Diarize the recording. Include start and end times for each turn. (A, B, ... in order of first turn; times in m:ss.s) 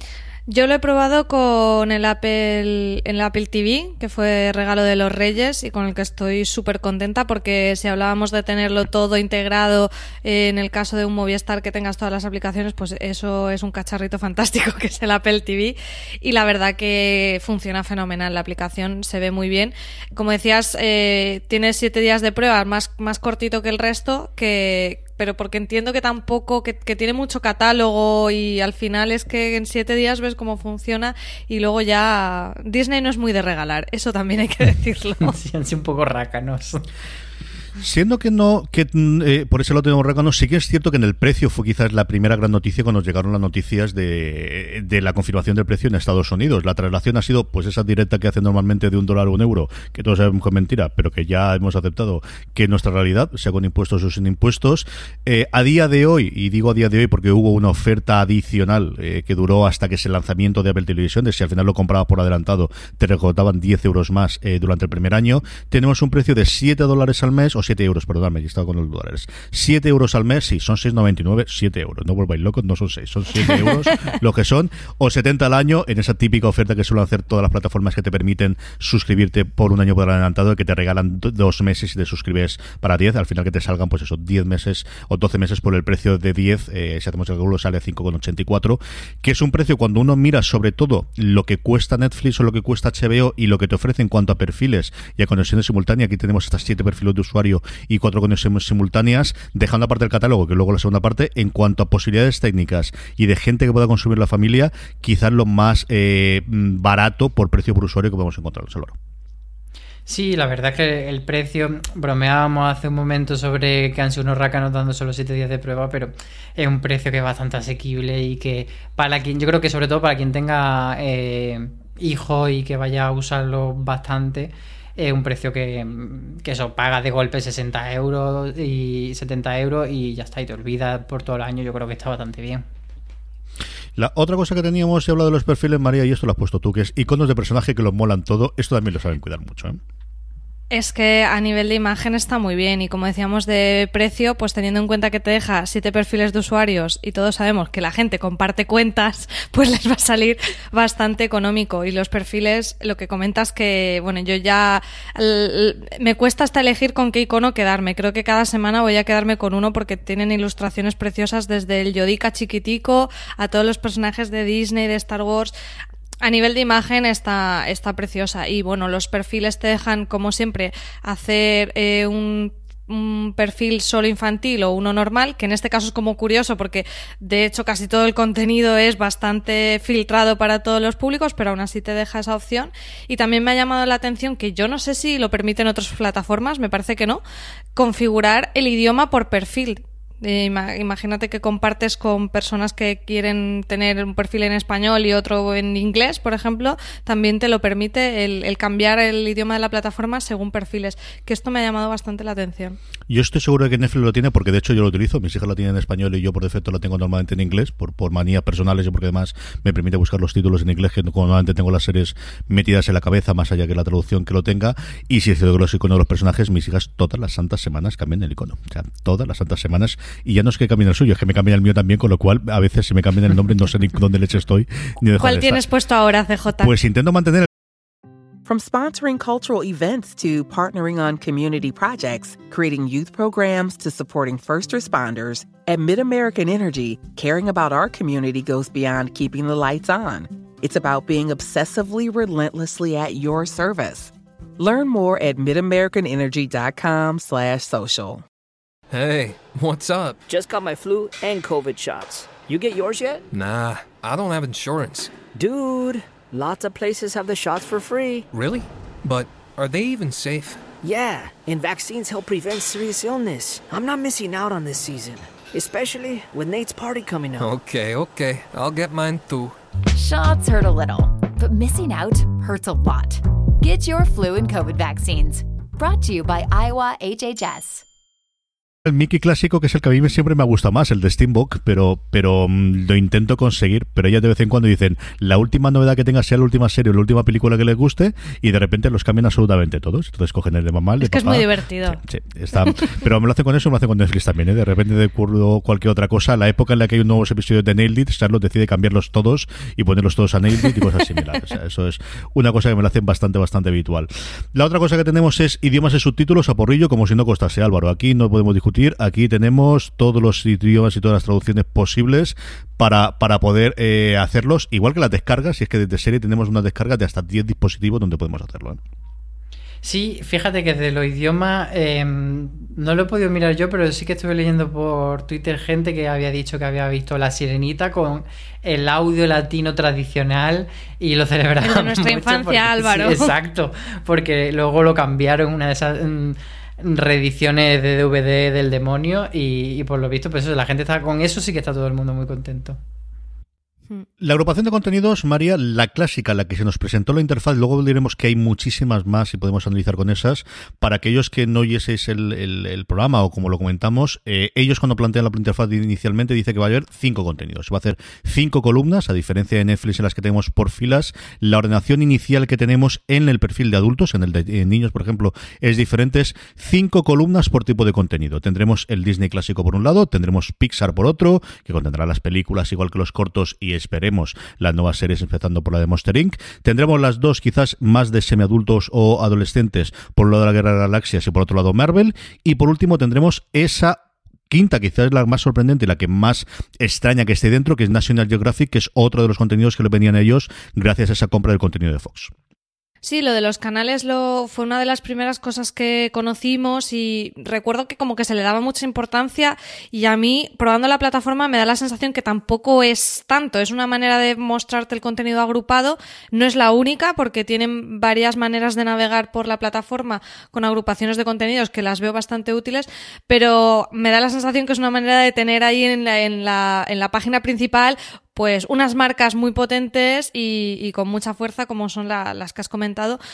0:00.5-0:35.3 A
0:35.2-0:36.8 B
0:37.8-1:49.0 C
1:50.1-2:12.6 B
2:14.0-2:19.8 C
2:20.7-2:45.5 A
2:46.2-3:07.2 A
3:07.8-3:22.8 A
3:23.1-3:45.6 C
3:45.2-3:46.7 A
3:46.6-3:47.5 C
3:48.4-4:08.2 D
4:08.9-4:10.2 E
4:10.3-4:13.2 F
4:13.3-4:15.1 E
4:15.3-4:18.3 F
4:18.3-4:20.6 E
4:20.8-4:27.5 F
4:27.4-4:29.6 E
4:29.9-4:37.8 G
4:38.8-5:18.8 C
4:51.0-4:52.0 A
5:19.8-5:42.8 B
5:31.6-5:33.3 A
5:44.2-6:32.3 C
6:33.0-7:03.2 A